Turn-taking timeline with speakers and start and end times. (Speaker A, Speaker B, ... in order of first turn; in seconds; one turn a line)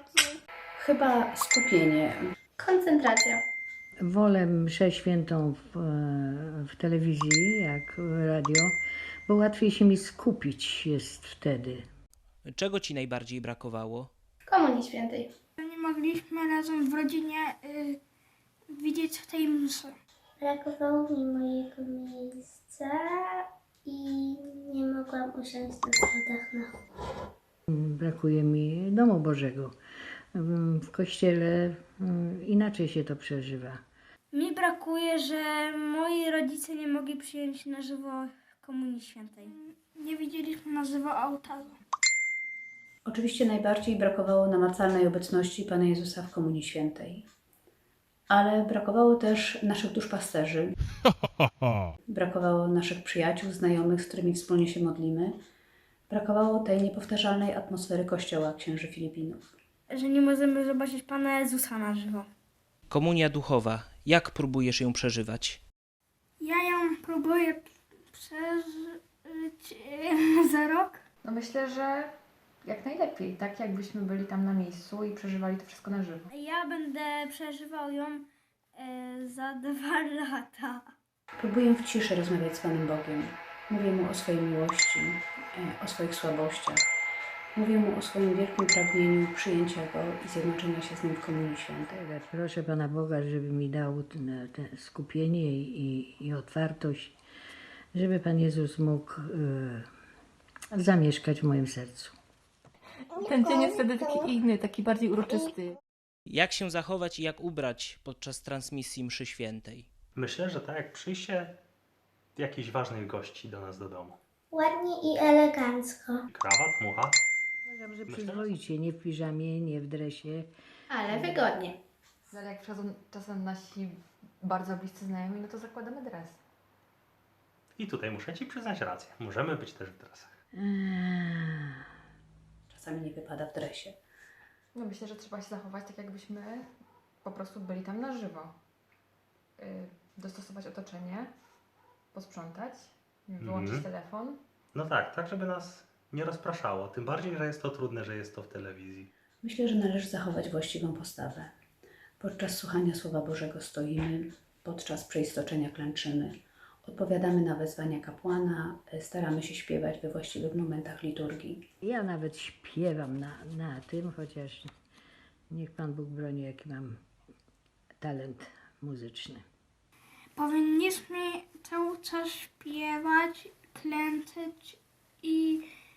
Speaker A: 0.8-2.3
Speaker B: 2.6-3.4
Speaker C: 4.0-8.8
Speaker C: 9.3-11.8
Speaker D: 12.5-14.1
Speaker B: 14.5-15.3
Speaker E: 15.6-18.0
Speaker E: 18.7-19.9
Speaker F: 20.4-26.7
Speaker C: 27.7-29.8
Speaker C: 30.4-33.8
Speaker E: 34.3-41.8
Speaker A: 43.0-47.2
Speaker A: 48.3-50.7
Speaker A: 52.1-55.4
Speaker A: 56.1-59.5
Speaker E: 59.9-62.3
Speaker D: 62.9-65.6
Speaker E: 66.4-71.0
Speaker G: 71.2-76.3
Speaker E: 76.3-80.9
Speaker A: 81.4-87.0
Speaker A: 87.5-92.0
Speaker C: 91.9-97.2
Speaker C: 97.9-99.9
Speaker C: 100.7-102.2
Speaker H: 103.2-105.8
Speaker D: 106.3-109.9
Speaker I: 110.2-111.6
Speaker I: 112.4-114.2
Speaker F: 114.5-116.2
Speaker I: 116.3-117.2
Speaker C: 117.7-120.5
Speaker I: 118.1-118.5
Speaker B: 121.0-121.7
Speaker C: 121.1-121.4
Speaker G: 122.3-126.4
Speaker I: 127.8-130.3
Speaker C: 130.6-131.8
Speaker A: 132.7-134.0
Speaker G: 134.7-136.7
Speaker G: 137.2-138.6
Speaker G: 139.6-141.3
Speaker G: 142.1-144.4
Speaker I: 143.4-143.9
Speaker I: 144.7-149.1
Speaker A: 149.4-151.5
Speaker A: 152.2-161.6
Speaker C: 161.8-164.7
Speaker C: 165.5-167.0
Speaker C: 168.0-169.4
Speaker E: 170.4-175.6